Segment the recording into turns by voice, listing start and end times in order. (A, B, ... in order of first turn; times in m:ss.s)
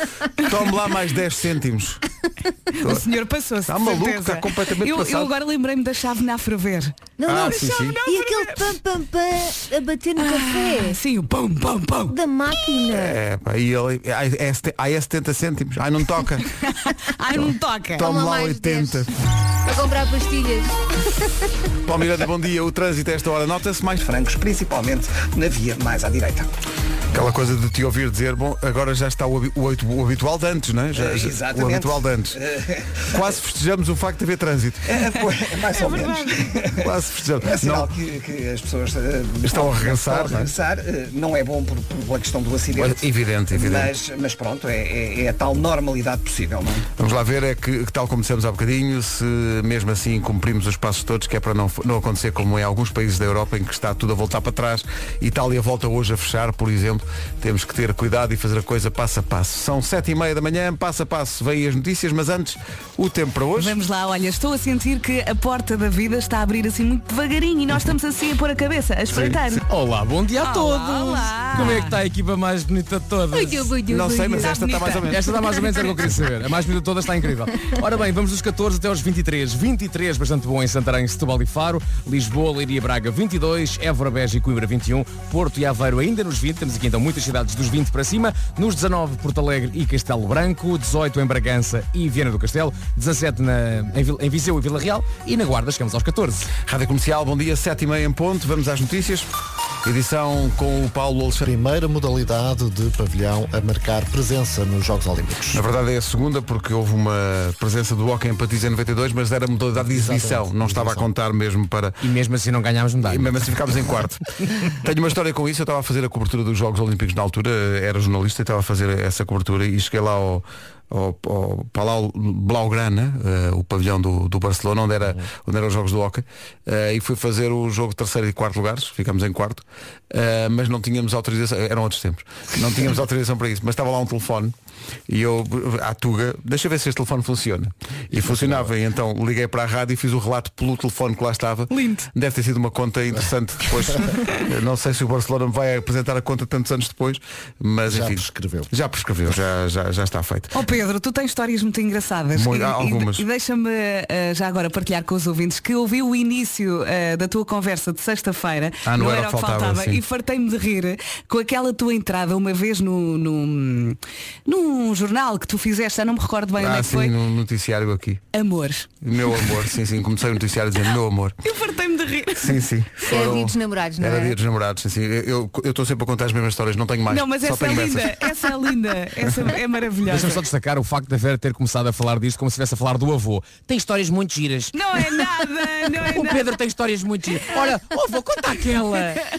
0:00.4-0:02.0 A
0:02.7-0:08.7 B
0:03.7-0:05.3 A
0:07.2-0:11.0 C
0:07.2-0:08.0 A
0:10.2-0:12.1 B
0:12.1-0:13.2 C
0:12.9-0:16.5 A
0:16.6-0:18.0 B
0:18.0-0:19.1 A
0:18.0-0:19.0 C
0:19.6-0:20.8 C
0:21.8-0:24.0 A
0:24.0-0:26.5 D
0:27.1-0:32.4 A
0:31.0-0:33.2 D
0:33.1-0:35.1 A
0:34.8-0:46.8 D
0:35.7-0:36.5 B
0:36.8-0:37.9 A
0:39.4-0:40.5 A
0:42.8-0:43.9 A
0:47.0-1:03.8 A
1:03.6-1:09.6 B
1:09.1-1:09.4 A
1:09.6-1:13.7 E
1:10.4-1:12.0 B
1:13.3-1:14.6 C
1:13.9-1:15.5 A
1:14.4-1:15.1 B
1:15.1-1:36.5 E
1:36.6-1:39.3 A
1:39.8-1:41.5 A
1:41.4-1:45.6 F
1:45.5-1:52.0 A
1:49.8-1:51.1 F
1:52.0-1:53.4 E
1:53.0-2:14.5 A
2:15.1-2:30.5 A
2:18.1-2:18.7 F
2:21.7-2:22.1 B
2:27.9-2:28.7 F
2:30.5-2:47.1 B
2:32.3-2:33.2 A
2:38.8-2:40.0 A
2:46.6-2:48.2 A
2:48.3-2:49.6 B
2:49.0-2:51.4 A
2:51.4-2:52.6 B
2:52.3-2:58.2 A
2:53.0-2:54.4 C
2:57.1-3:00.4 B
3:00.1-3:05.3 E
3:04.7-3:06.4 B
3:05.9-3:09.2 E